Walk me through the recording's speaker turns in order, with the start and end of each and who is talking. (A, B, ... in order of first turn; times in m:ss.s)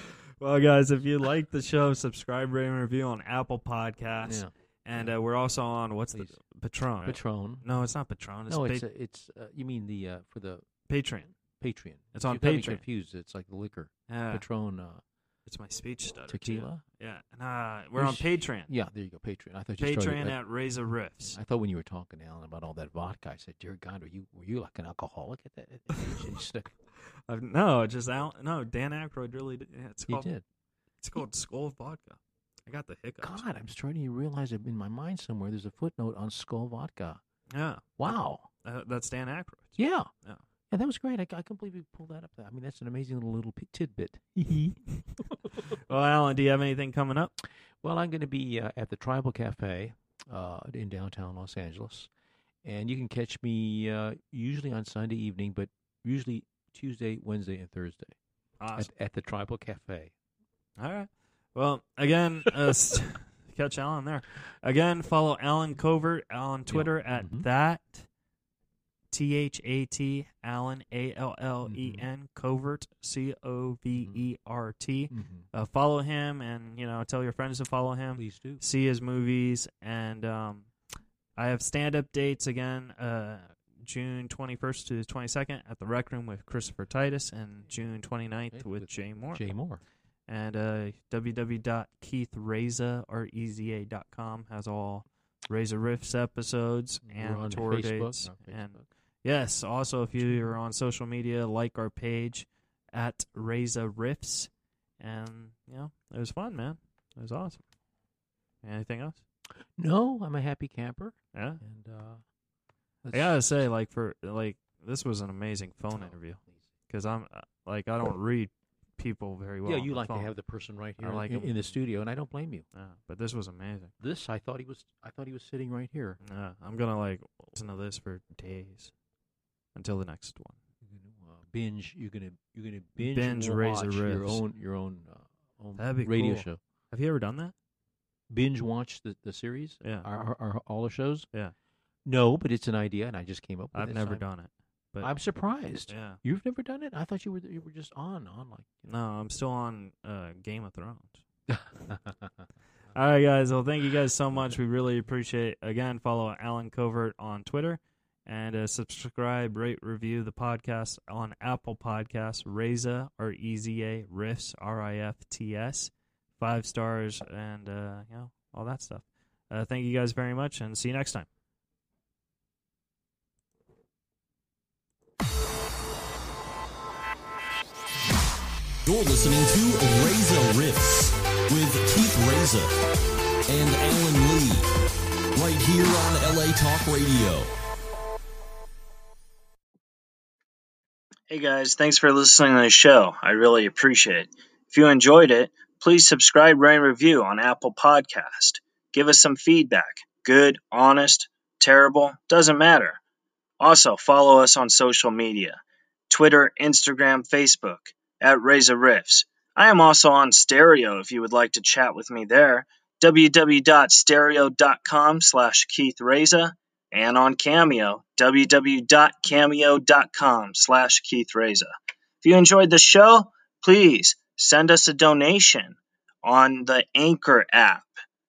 0:00.4-0:08.8 A
0:04.2-0:05.2 B
0:07.0-0:07.6 B
0:08.5-0:10.7 B
0:10.9-0:11.3 A
0:11.4-0:15.0 B
0:12.1-0:12.8 A
0:14.1-0:14.4 A
0:15.4-0:18.7 A
0:16.3-0:16.8 B
0:18.0-0:20.4 B
0:19.8-0:21.4 A
0:21.3-0:26.7 B
0:27.3-0:30.3 A
0:30.1-0:30.4 B
0:31.0-0:33.4 A
0:33.2-0:37.2 B
0:37.5-0:38.1 A
0:38.0-0:38.5 B
0:38.6-0:40.4 A
0:39.8-0:40.1 B
0:40.7-0:45.8 B
0:45.9-0:47.3 A
0:47.8-0:52.1 B
0:52.6-0:58.1 B
0:58.6-0:58.9 A
0:58.8-1:00.1 B
1:00.8-1:08.1 A
1:06.7-1:07.4 B
1:09.1-1:20.7 A
1:11.6-1:12.0 B
1:14.0-1:14.2 B
1:15.1-1:15.4 B
1:18.2-1:18.6 B
1:21.4-1:29.4 A
1:28.5-1:29.8 B
1:30.3-1:47.6 A
1:37.0-1:38.8 B
1:40.2-1:40.6 B
1:48.6-1:49.2 A
1:49.5-1:52.2 B
1:51.3-1:51.6 A
1:53.0-1:53.6 B
1:53.1-2:00.3 A
1:55.9-1:56.7 B
1:59.6-2:02.6 B
2:01.0-2:01.7 A
2:02.7-2:03.9 A
2:04.0-2:06.2 B
2:06.2-2:08.9 A
2:09.7-2:10.6 A
2:10.8-2:16.6 B
2:13.0-2:14.4 A
2:15.8-2:17.5 A
2:18.3-2:21.3 B
2:22.0-2:24.2 B
2:23.7-2:25.1 A
2:25.0-2:28.9 B
2:25.9-2:26.2 A
2:28.9-2:31.2 A
2:31.5-2:32.3 B
2:32.9-2:51.3 A
2:58.9-3:02.7 C
3:03.5-3:04.7 C
3:05.3-3:07.5 C
3:11.3-3:23.0 D
3:23.6-3:47.9 D